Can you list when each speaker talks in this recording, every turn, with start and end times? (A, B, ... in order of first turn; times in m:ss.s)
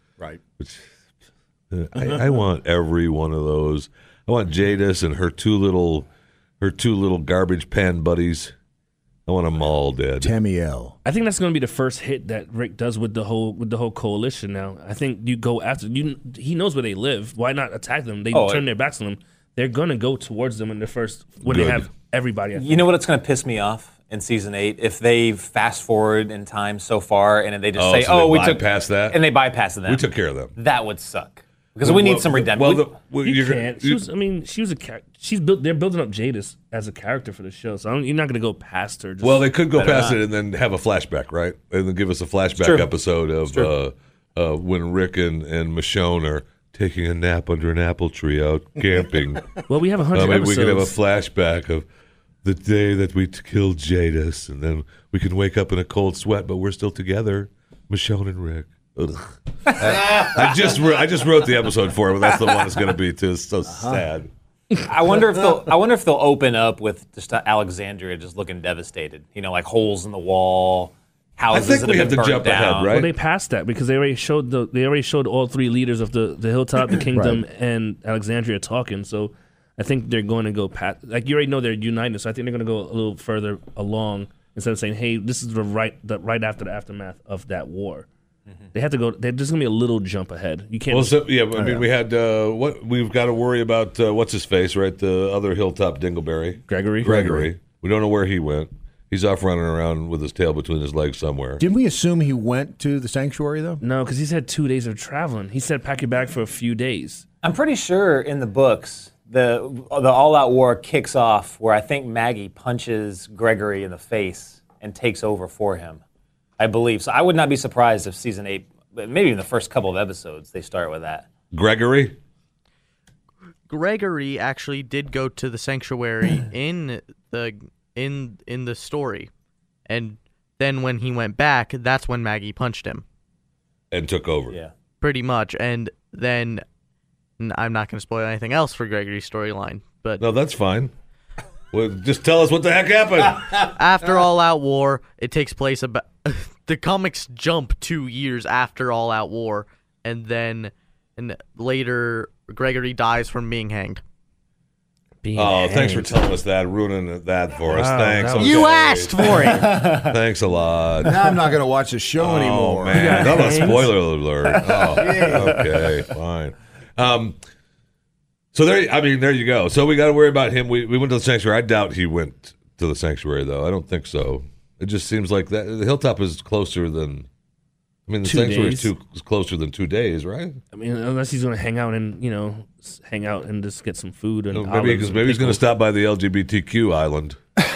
0:01.7-0:06.1 A
0:06.6-0:08.5 A
0:09.3-0:10.3 A
0:10.2-0:11.0 B
0:11.0-0:22.9 C
0:18.3-0:18.6 D
0:21.4-0:21.9 A
0:22.6-0:30.0 D
0:27.8-0:29.2 A
0:29.9-0:30.5 A
0:30.6-0:32.9 D
0:31.8-0:34.0 A
0:33.2-0:39.5 C
0:39.2-0:49.5 A
0:39.8-0:40.2 D
0:42.6-0:42.9 D
0:49.7-0:51.0 C
0:50.1-0:51.8 A
0:52.4-1:04.3 A
1:03.7-1:04.0 B
1:04.8-1:13.0 D
1:11.5-1:13.1 A
1:12.9-1:28.1 C
1:17.1-1:17.4 B
1:28.7-1:31.3 C
1:30.9-1:41.6 A
1:31.6-1:31.8 B
1:36.7-1:37.4 C
1:41.6-1:43.8 B
1:43.8-1:47.2 C
1:47.4-1:56.0 D
1:56.6-2:01.3 D
2:01.5-2:02.2 A
2:03.7-2:09.3 E
2:09.9-2:13.0 E
2:13.9-2:14.6 A
2:15.0-2:16.6 E
2:17.4-2:20.2 E
2:20.2-2:20.9 A
2:21.7-2:23.7 A
2:23.7-2:34.0 E
2:35.2-2:36.3 C
2:35.4-2:41.4 A
2:37.7-2:38.8 C
2:38.8-2:39.1 E
2:39.4-2:40.1 D
2:41.0-2:43.4 B
2:42.2-2:47.4 A
2:42.9-2:44.0 C
2:44.8-2:45.7 B
2:48.5-2:57.3 A
2:58.1-3:00.6 A
2:58.2-2:58.9 C
3:00.7-3:05.6 C
3:04.5-3:07.4 A